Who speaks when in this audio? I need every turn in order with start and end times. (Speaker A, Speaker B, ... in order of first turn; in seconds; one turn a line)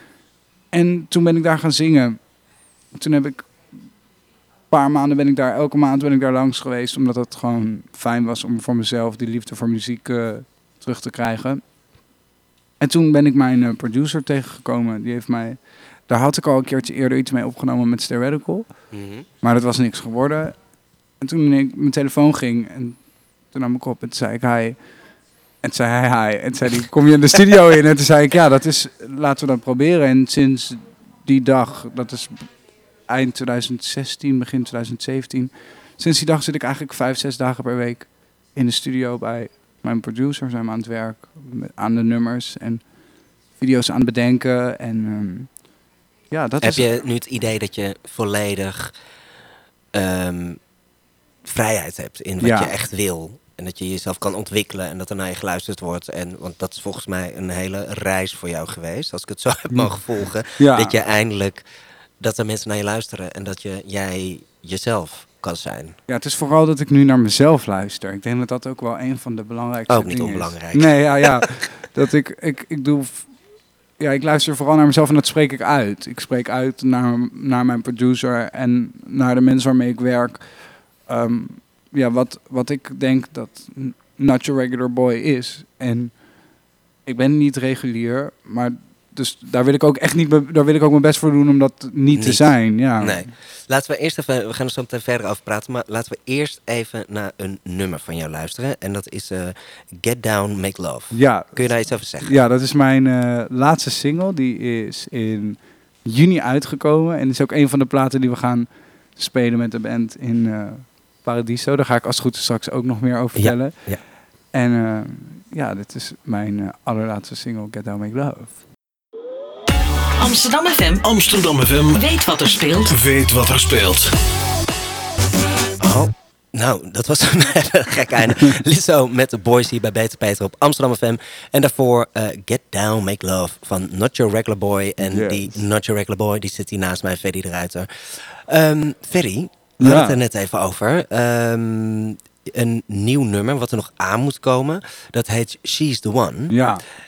Speaker A: 0.7-2.2
Speaker A: 2.9-3.5
Speaker A: 4.7-11.6
Speaker A: 12.8-18.7
Speaker B: 18.9-19.3
Speaker A: 19.4-20.6
Speaker A: 21.2-23.0
Speaker A: 23.5-24.8
Speaker A: 25.6-32.5
Speaker A: 33.1-42.9
Speaker A: 43.6-45.5
Speaker A: 46.3-46.9
Speaker B: 46.6-48.9
Speaker B: 49.9-50.6
Speaker B: 51.4-61.6
Speaker A: 52.4-52.7
Speaker A: 60.6-61.0
Speaker B: 62.2-66.0
Speaker A: 66.1-73.3
Speaker B: 69.9-71.5
Speaker A: 74.0-80.5
Speaker A: 81.1-86.2
Speaker A: 87.1-93.3
Speaker B: 92.1-102.4
Speaker A: 101.1-101.7
Speaker A: 102.2-113.9
Speaker B: 113.4-114.0
Speaker A: 114.5-118.6
Speaker C: 120.2-122.9
Speaker D: 121.2-122.0
Speaker D: 122.9-124.1
Speaker B: 125.8-146.6
Speaker A: 135.0-135.6
Speaker A: 139.8-140.2
Speaker A: 146.5-146.8